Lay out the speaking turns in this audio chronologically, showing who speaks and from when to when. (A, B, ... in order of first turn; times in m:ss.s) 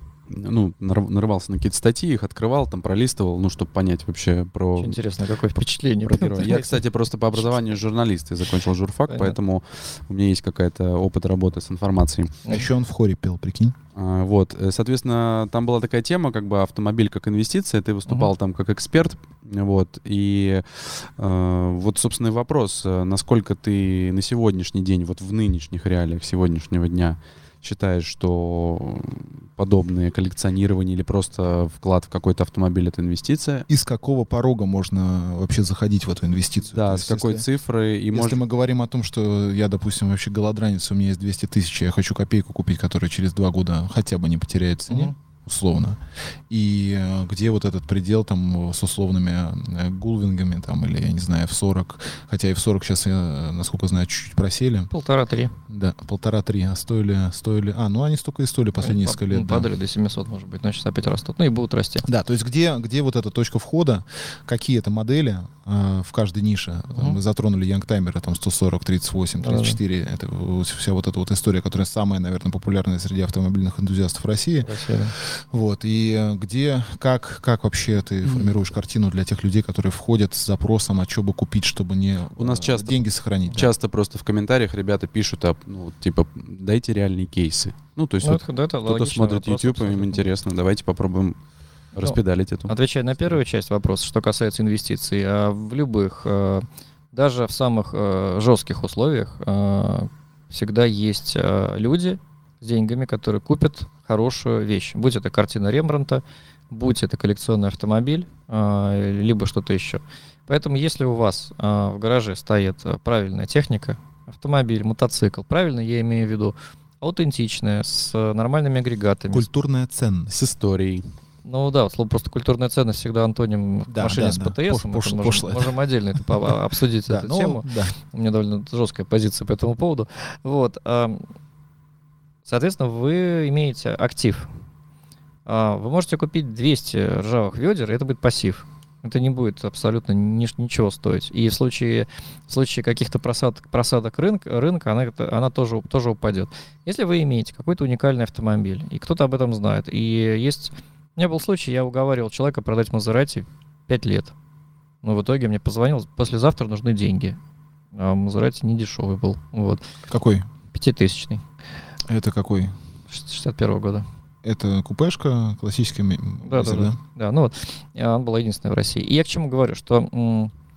0:00.3-0:05.0 A
0:04.8-0:06.8 B
0:06.0-0:12.4 A
0:06.4-0:06.8 C
0:07.4-0:07.6 B
0:09.1-0:09.4 B
0:12.5-0:13.8 C
0:14.0-0:33.7 A
0:33.7-0:37.5 C
0:36.7-0:38.4 A
0:38.1-0:54.9 C
0:44.9-0:45.1 B
0:54.9-0:55.5 B
0:55.7-0:59.7 C
0:58.8-1:02.0 B
1:02.0-1:23.7 C
1:09.4-1:09.8 B
1:14.6-1:15.2 B
1:18.2-1:18.5 B
1:22.4-1:31.4 A
1:28.2-1:30.2 B
1:31.9-1:32.7 A
1:32.0-1:59.4 B
1:59.3-2:00.3 C
2:00.3-2:01.1 A
2:01.4-2:11.2 B
2:03.9-2:05.8 C
2:07.1-2:08.0 C
2:12.4-2:14.5 B
2:15.5-2:34.3 B
2:35.0-2:37.4 B
2:38.0-2:39.8 B
2:40.1-2:40.5 C
2:40.7-2:41.4 B
2:42.1-2:42.7 C
2:43.1-2:44.1 B
2:44.4-2:47.0 C
2:46.4-2:50.5 B